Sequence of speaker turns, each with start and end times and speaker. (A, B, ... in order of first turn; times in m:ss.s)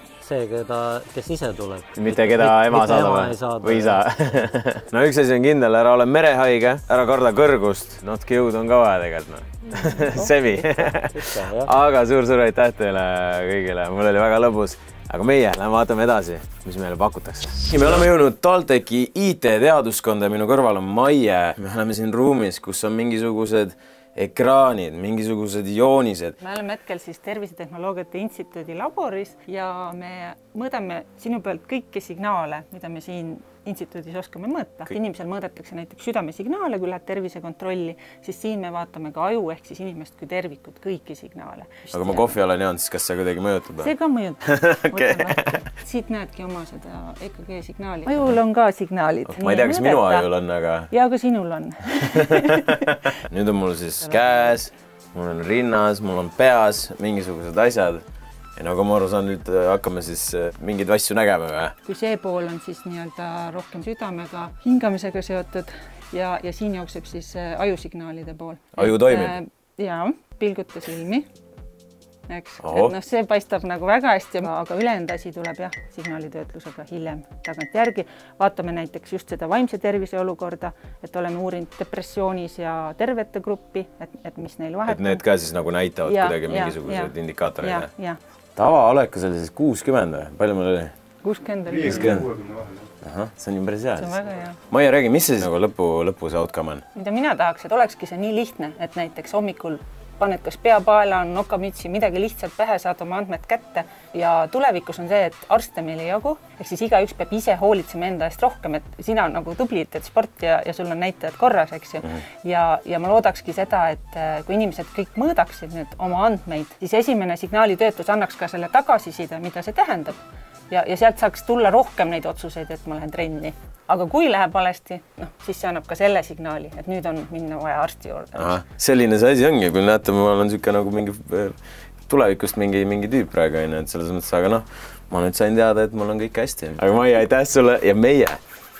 0:00.2-0:04.1 A
0:02.0-0:26.3 B
0:09.7-0:11.7 A
0:26.4-0:42.3 C
0:41.9-0:43.9 B
0:43.8-0:50.3 C
0:44.4-0:45.6 B
0:49.3-0:50.9 B
0:50.9-0:52.8 C
0:52.0-0:58.0 B
0:58.6-1:01.7 B
1:01.8-1:11.2 C
1:08.8-1:09.4 B
1:12.3-1:25.2 C
1:12.6-1:13.0 B
1:24.9-1:27.9 B
1:26.0-1:28.2 C
1:28.6-1:30.9 B
1:31.2-1:32.2 C
1:31.8-1:32.3 B
1:33.0-1:36.8 B
1:34.0-1:34.6 C
1:36.9-2:00.2 C
2:00.7-2:08.5 C
2:08.3-2:11.6 B
2:12.1-2:18.4 B